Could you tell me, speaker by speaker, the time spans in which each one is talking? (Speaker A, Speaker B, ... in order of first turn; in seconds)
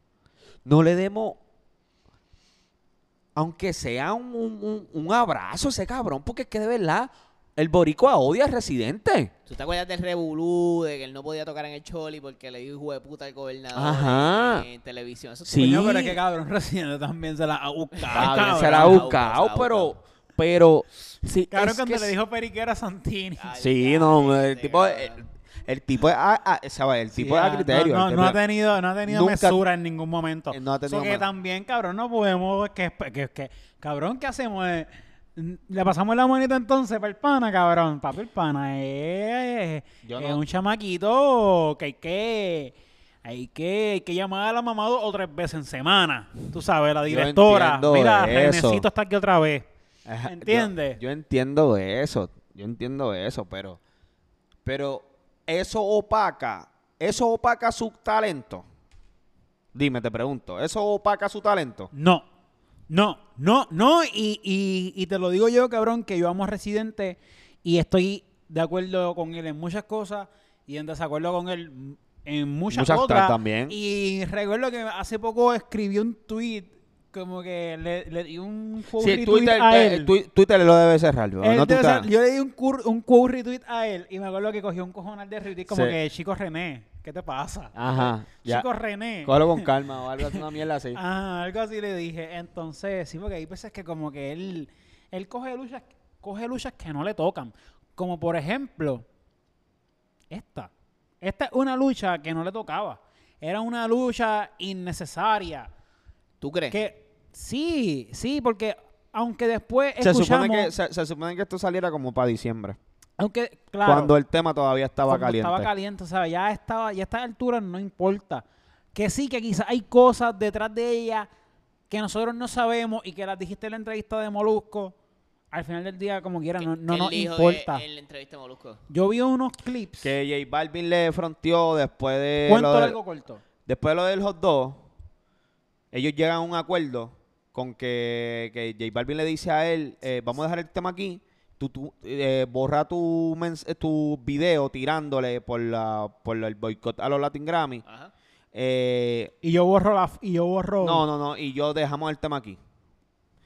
Speaker A: 0.7-1.4, 3.4-9.3, 13.8-14.7, 15.4-16.2, 18.1-22.1, 23.6-28.4, 29.1-29.6, 30.5-31.3, 40.0-40.4, 47.1-48.9, 50.1-53.8, 54.6-58.6, 59.7-61.9, 72.7-73.8, 79.0-82.1, 85.7-86.0, 87.8-88.7, 89.2-91.0, 110.0-112.8, 113.8-115.7, 130.0-133.0, 133.7-134.8, 135.9-147.8, 148.5-149.3, 150.8-152.6
Speaker B: 9.5-15.8, 18.0-19.9, 23.4-25.2, 106.4-106.8, 126.6-128.8, 147.9-148.1
Speaker C: 15.6-19.1, 21.5-23.5, 27.1-49.7, 50.2-51.0, 61.9-62.3, 62.9-80.1, 81.4-89.7, 90.9-99.1, 100.3-105.7, 106.7-110.7, 113.2-114.1, 115.1-121.3, 121.9-125.0, 125.5-127.8, 128.9-130.1, 132.5-133.4, 149.4-151.0